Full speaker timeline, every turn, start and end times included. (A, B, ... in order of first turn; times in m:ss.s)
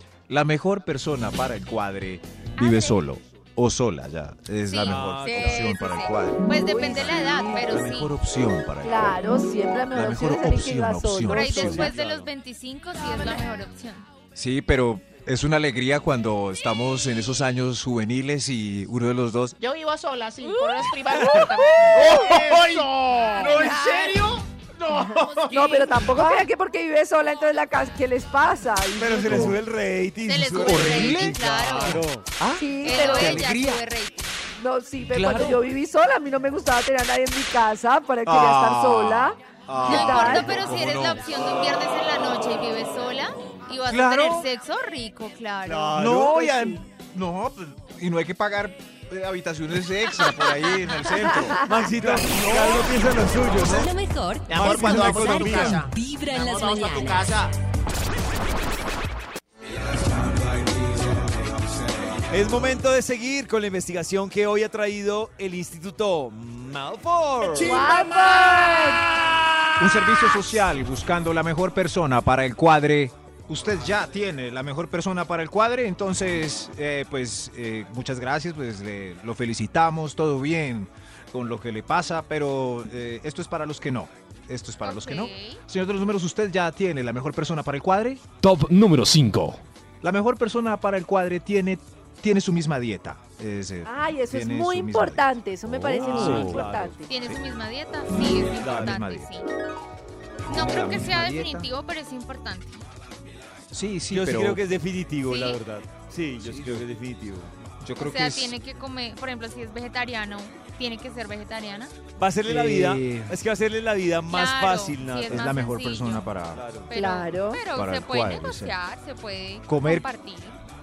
0:00.3-0:09.2 A
0:02.6-0:03.0 B
0:04.7-0:08.2 B
0:04.9-0:05.8 C
0:06.5-0:07.6 D
0:08.8-0:11.8 D
0:09.9-0:11.9 A
0:11.3-0:14.1 B
0:11.5-0:12.3 C
0:14.4-0:19.6 A
0:19.6-0:26.4 E
0:20.4-0:21.0 B
0:21.8-0:23.8 A
0:23.4-0:24.3 B
0:25.5-0:29.6 D
0:29.0-0:32.3 C
0:29.3-0:29.6 A
0:30.2-0:32.0 B
0:30.6-0:33.8 A
0:32.6-0:33.5 D
0:32.8-0:34.4 B
0:34.6-0:40.5 D
0:35.1-0:35.7 A
0:38.2-0:41.3 A
0:39.8-0:46.0 B
0:43.9-0:44.5 A
0:45.6-0:46.7 C
0:46.0-0:52.9 A
0:50.1-0:50.8 B
0:51.6-0:53.9 C
0:53.5-0:57.3 F
0:54.5-0:57.5 E
0:54.5-0:55.9 C
0:59.8-1:02.3 A
1:02.3-1:07.8 C
1:07.6-1:09.0 D
1:07.8-1:08.9 E
1:09.8-1:28.2 A
1:24.8-1:25.6 B
1:28.4-1:29.6 G
1:30.0-1:35.4 A
1:33.8-1:37.1 D
1:35.8-1:36.6 G
1:36.0-1:37.0 C
1:36.0-1:36.5 A
1:37.1-1:39.5 B
1:38.6-1:39.3 A
1:38.6-1:39.0 C
1:40.5-1:42.8 B
1:40.5-1:41.7 A
1:43.7-1:44.6 A
1:44.1-1:47.5 C
1:45.3-1:45.6 B
1:46.4-1:46.9 A
1:47.8-1:48.6 A
1:48.0-1:52.0 B
1:52.2-1:55.6 C
1:52.5-1:53.4 A
1:54.3-1:56.2 B
1:55.3-1:56.6 A
1:56.5-1:56.9 C
1:56.9-2:00.6 B
1:56.9-1:57.6 D
1:57.7-1:58.8 A
1:59.7-2:00.1 A